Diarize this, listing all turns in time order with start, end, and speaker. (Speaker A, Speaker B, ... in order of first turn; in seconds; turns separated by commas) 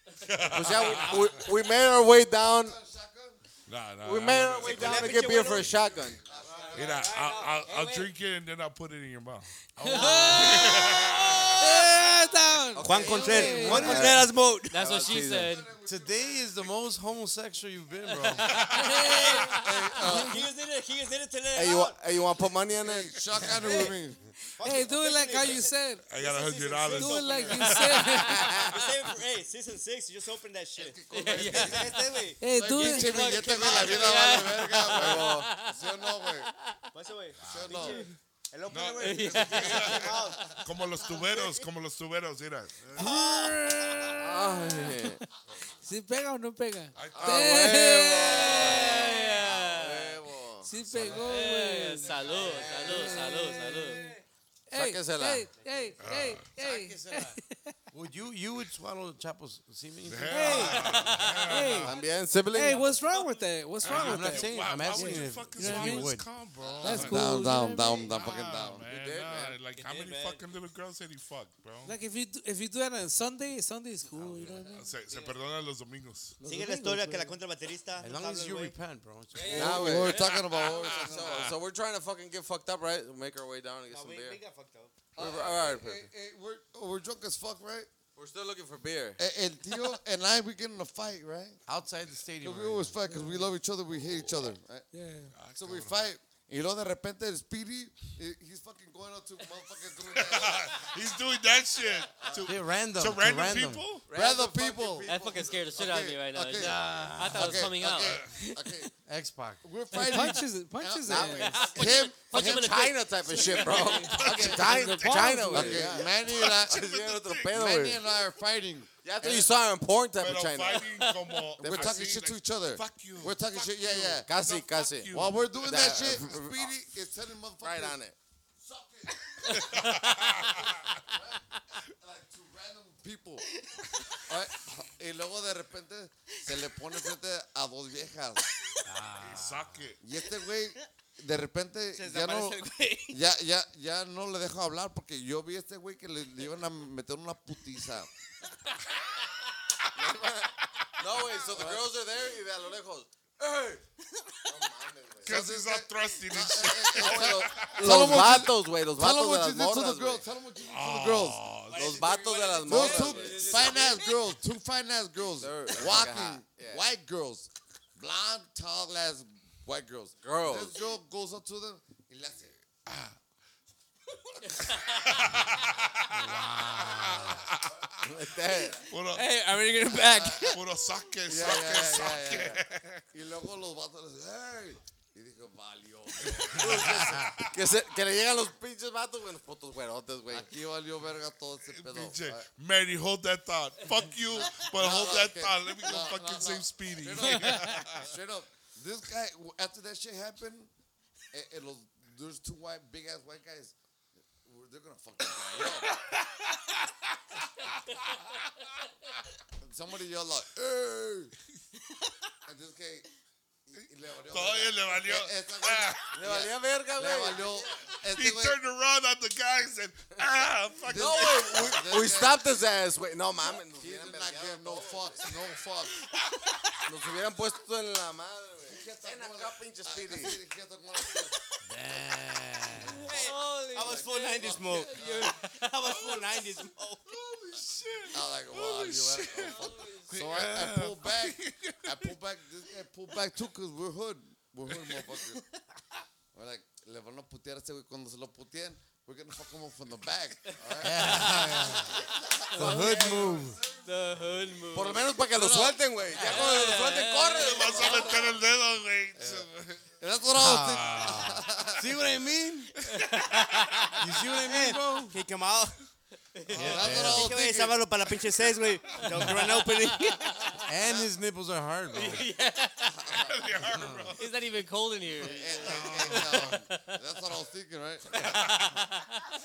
Speaker A: 0.2-1.4, Speaker B: 0.5-2.8, Speaker C: 2.3-3.4, Speaker A: 3.7-5.7, Speaker B: 4.0-6.2, Speaker D: 4.6-5.8, Speaker C: 6.1-7.1, Speaker D: 6.4-8.1, Speaker A: 6.7-9.5, Speaker E: 9.8-10.6, Speaker F: 9.8-14.2, Speaker A: 10.3-11.8, Speaker B: 12.8-15.6, Speaker D: 12.8-14.8, Speaker C: 13.0-14.1, Speaker G: 14.7-15.7, Speaker C: 15.4-16.7, Speaker E: 15.8-18.5, Speaker A: 18.4-19.4, Speaker D: 18.7-22.0, Speaker F: 18.7-20.4, Speaker C: 19.5-20.5, Speaker B: 21.5-23.1, Speaker C: 22.8-24.2, Speaker D: 24.6-34.4, Speaker F: 24.6-26.0, Speaker A: 26.1-28.5, Speaker F: 26.9-28.6, Speaker C: 30.8-36.5, Speaker G: 31.1-31.9, Speaker F: 32.4-33.3, Speaker G: 32.8-35.8, Speaker B: 34.8-35.5, Speaker D: 36.9-41.6, Speaker A: 37.4-37.9, Speaker C: 37.4-38.1, Speaker A: 38.7-42.9, Speaker G: 39.0-40.0, Speaker D: 42.9-44.4, Speaker F: 43.0-45.0, Speaker B: 44.2-45.2, Speaker F: 45.8-48.6, Speaker A: 47.0-47.7, Speaker B: 47.1-50.7, Speaker G: 48.2-50.2, Speaker F: 50.6-52.1, Speaker C: 50.9-51.2, Speaker A: 50.9-51.2, Speaker G: 51.2-54.0, Speaker B: 52.3-52.9, Speaker E: 52.6-53.2, Speaker F: 52.8-54.1, Speaker D: 53.9-54.2, Speaker F: 54.7-57.8, Speaker B: 54.7-55.5, Speaker A: 56.0-56.5, Speaker E: 56.5-57.4, Speaker E: 57.9-61.1, Speaker A: 60.0-62.0, Speaker F: 60.3-62.0, Speaker D: 60.6-61.3, Speaker G: 61.0-61.4, Speaker B: 61.8-62.9, Speaker F: 62.5-66.1, Speaker D: 62.7-63.3, Speaker A: 63.8-67.3, Speaker E: 63.8-66.3, Speaker C: 66.8-68.9, Speaker F: 66.8-68.1, Speaker A: 68.1-72.0, Speaker B: 68.9-69.6, Speaker D: 69.7-70.4, Speaker F: 71.8-74.8, Speaker E: 74.2-74.6, Speaker A: 74.7-76.4, Speaker D: 75.1-75.4, Speaker F: 76.4-77.4, Speaker D: 76.4-78.8, Speaker E: 78.0-79.9, Speaker D: 79.3-79.8, Speaker G: 79.3-80.4, Speaker B: 79.5-84.4, Speaker C: 79.5-81.6, Speaker A: 80.1-81.6, Speaker D: 83.9-85.1, Speaker B: 85.2-86.1, Speaker C: 85.2-87.9, Speaker B: 88.2-89.2, Speaker C: 89.2-91.6, Speaker E: 91.7-93.0, Speaker C: 92.4-94.9, Speaker F: 93.1-93.5, Speaker F: 94.9-95.3, Speaker A: 95.3-95.9, Speaker C: 95.5-101.0, Speaker A: 100.1-104.1, Speaker C: 101.9-102.5, Speaker E: 102.5-103.9, Speaker B: 104.1-105.4, Speaker C: 104.1-108.9, Speaker G: 105.1-108.2, Speaker E: 106.5-107.7, Speaker A: 108.0-108.4, Speaker E: 109.0-109.6, Speaker C: 109.6-112.9, Speaker F: 109.9-111.7, Speaker B: 111.1-118.0, Speaker G: 111.7-113.9, Speaker F: 113.4-115.9, Speaker A: 113.4-115.4, Speaker E: 114.2-115.7, Speaker C: 115.5-116.9, Speaker A: 116.2-117.8, Speaker C: 117.5-119.5, Speaker B: 119.0-121.0, Speaker A: 120.2-126.1, Speaker C: 121.6-124.3, Speaker B: 121.6-121.9, Speaker B: 124.2-126.7, Speaker C: 125.1-128.0, Speaker B: 127.6-128.2, Speaker C: 128.6-133.5, Speaker A: 129.5-131.0, Speaker D: 133.6-134.3, Speaker C: 134.2-138.5, Speaker E: 138.8-139.9, Speaker A: 139.2-140.0, Speaker C: 140.0-148.1, Speaker D: 141.9-143.2, Speaker B: 149.9-153.8, Speaker C: 151.6-151.8, Speaker B: 154.5-155.4, Speaker A: 155.2-158.4, Speaker C: 155.3-161.8, Speaker B: 156.9-160.2, Speaker A: 160.6-162.0, Speaker D: 161.7-164.1, Speaker B: 161.7-163.9, Speaker G: 161.9-164.0, Speaker C: 162.6-172.6, Speaker B: 165.4-166.8, Speaker B: 170.2-170.8, Speaker A: 172.9-173.1, Speaker G: 174.5-175.0, Speaker A: 174.9-178.1, Speaker E: 176.1-177.4, Speaker B: 178.0-178.9, Speaker A: 178.8-179.3, Speaker F: 179.1-180.6, Speaker C: 179.9-180.6, Speaker A: 180.4-183.0, Speaker C: 181.3-187.2, Speaker A: 186.2-187.6, Speaker B: 186.6-190.5, Speaker C: 190.3-192.5, Speaker A: 191.7-198.1, Speaker C: 194.3-200.7, Speaker F: 197.2-197.8, Speaker C: 201.3-203.8, Speaker C: 204.3-206.0, Speaker A: 205.9-207.1, Speaker A: 207.6-208.3, Speaker C: 209.6-211.3, Speaker C: 212.5-213.1, Speaker C: 213.7-218.6, Speaker A: 214.3-216.1, Speaker B: 216.1-217.7, Speaker A: 218.1-221.8, Speaker C: 220.9-222.5, Speaker B: 220.9-225.2, Speaker C: 223.8-226.0, Speaker B: 226.9-230.4, Speaker C: 228.7-231.4, Speaker E: 231.7-233.1, Speaker G: 233.0-236.2, Speaker D: 233.1-237.2, Speaker C: 233.8-235.4, Speaker A: 237.2-242.1, Speaker C: 238.1-245.4, Speaker G: 239.4-240.1, Speaker C: 246.3-253.4, Speaker E: 250.8-253.6, Speaker G: 252.5-255.2, Speaker B: 254.7-258.3, Speaker C: 255.3-255.8, Speaker G: 256.1-258.3, Speaker A: 257.4-259.8, Speaker C: 259.2-261.8, Speaker E: 260.3-262.7, Speaker A: 260.8-261.3, Speaker A: 262.8-263.7, Speaker D: 263.3-265.8, Speaker E: 264.0-265.2, Speaker D: 266.4-270.6, Speaker E: 266.5-267.3, Speaker C: 266.5-267.8, Speaker A: 266.6-267.1, Speaker A: 268.9-269.6, Speaker G: 269.2-270.6, Speaker E: 270.7-272.3, Speaker G: 271.9-273.2, Speaker A: 273.2-274.3, Speaker E: 273.7-274.1, Speaker G: 274.2-277.0, Speaker C: 275.2-278.5, Speaker A: 275.6-276.6, Speaker G: 278.1-279.3, Speaker A: 278.2-278.7